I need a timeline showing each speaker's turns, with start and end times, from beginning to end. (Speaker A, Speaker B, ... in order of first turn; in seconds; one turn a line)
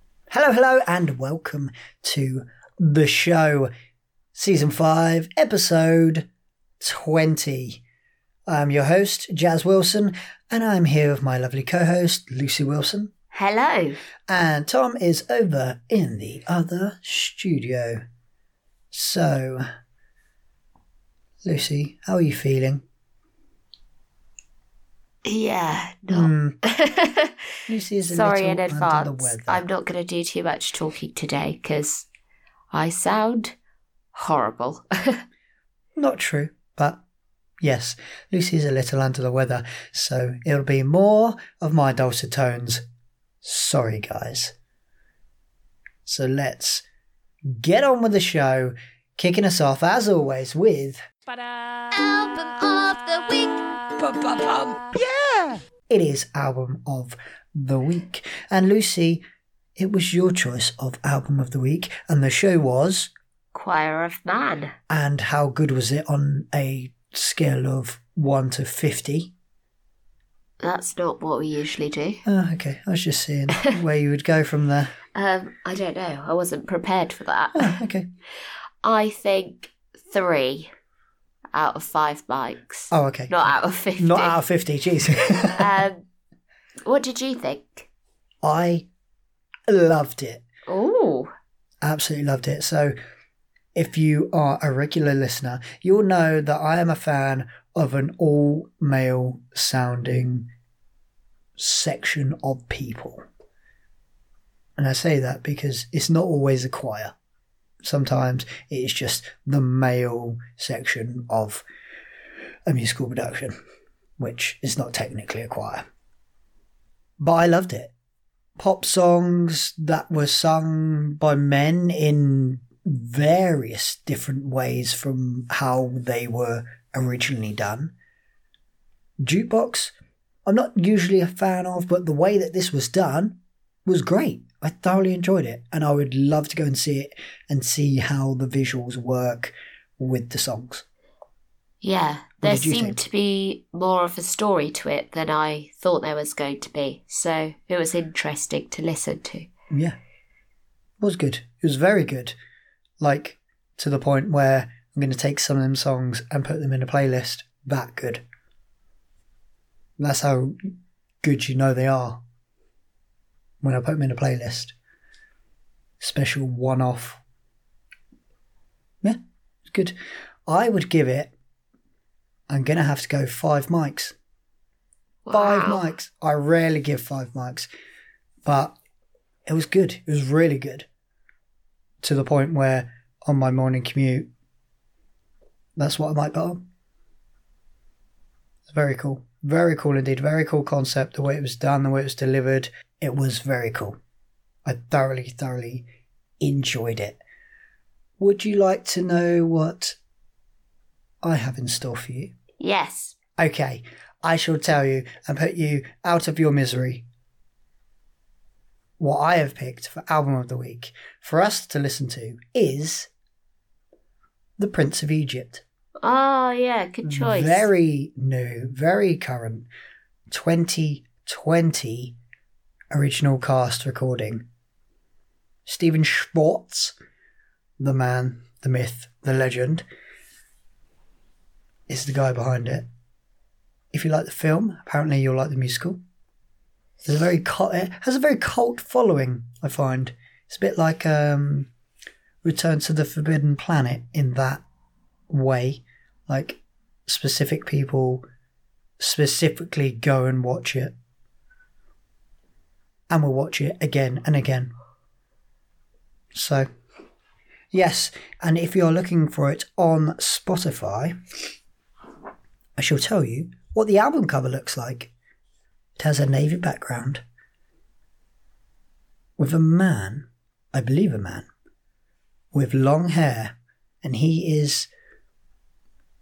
Speaker A: 0.3-3.7
Speaker A: 4.3-6.3
Speaker A: 6.8-7.8
Speaker A: 8.5-13.1
Speaker B: 13.3-14.0
Speaker A: 14.3-18.0
Speaker A: 18.9-19.6
Speaker A: 21.4-22.8
Speaker B: 25.2-27.3
Speaker A: 26.1-26.6
Speaker A: 27.7-29.6
Speaker B: 28.1-32.1
Speaker B: 32.7-33.5
Speaker B: 34.1-35.2
Speaker A: 36.0-37.0
Speaker A: 37.6-42.8
Speaker A: 43.4-44.5
Speaker A: 46.0-46.8
Speaker A: 47.5-51.0
Speaker B: 51.9-54.8
Speaker A: 54.9-59.2
Speaker A: 59.8-63.1
Speaker B: 63.5-64.7
Speaker A: 64.9-69.3
Speaker B: 70.6-72.2
Speaker A: 72.2-74.9
Speaker B: 75.1-77.8
Speaker A: 77.5-78.1
Speaker B: 78.8-80.7
Speaker B: 81.5-84.4
Speaker A: 82.9-85.8
Speaker B: 85.5-86.0
Speaker B: 86.8-87.9
Speaker A: 88.4-88.9
Speaker A: 89.7-90.4
Speaker B: 90.7-91.3
Speaker A: 91.8-92.9
Speaker A: 93.7-100.5
Speaker A: 101.6-103.2
Speaker A: 104.8-107.1
Speaker A: 107.8-111.6
Speaker A: 112.7-113.5
Speaker A: 114.2-115.8
Speaker A: 117.2-117.9
Speaker A: 118.6-127.9
Speaker A: 129.2-129.9
Speaker A: 130.4-140.8
Speaker B: 141.8-149.5
Speaker A: 142.4-143.0
Speaker A: 149.7-149.9
Speaker A: 151.0-152.3
Speaker A: 153.0-158.2
Speaker A: 160.0-160.6
Speaker A: 161.2-162.2
Speaker A: 163.6-164.7
Speaker A: 166.0-167.2
Speaker A: 169.0-169.9
Speaker A: 170.5-171.3
Speaker A: 172.5-174.1
Speaker B: 175.2-175.9
Speaker A: 175.3-177.7
Speaker A: 178.4-178.8
Speaker A: 179.5-180.9
Speaker A: 182.0-184.3
Speaker A: 185.8-186.6
Speaker A: 188.7-194.0
Speaker A: 194.7-195.8
Speaker A: 196.4-197.2
Speaker A: 198.2-200.0
Speaker A: 201.2-202.3
Speaker B: 202.6-203.1
Speaker A: 203.4-207.0
Speaker A: 209.0-213.1
Speaker A: 214.6-215.6
Speaker B: 216.0-217.7
Speaker A: 217.0-219.7
Speaker A: 220.3-222.2
Speaker A: 222.9-224.4
Speaker A: 225.7-226.9
Speaker A: 227.8-229.8
Speaker A: 231.9-232.9
Speaker A: 233.9-236.0
Speaker A: 237.0-241.7
Speaker A: 242.4-244.6
Speaker A: 245.3-248.2
Speaker A: 249.0-250.9
Speaker A: 253.1-254.7
Speaker A: 256.3-256.7
Speaker A: 257.7-261.1
Speaker A: 262.8-265.1
Speaker A: 266.0-267.2
Speaker A: 269.4-271.5
Speaker A: 272.5-274.9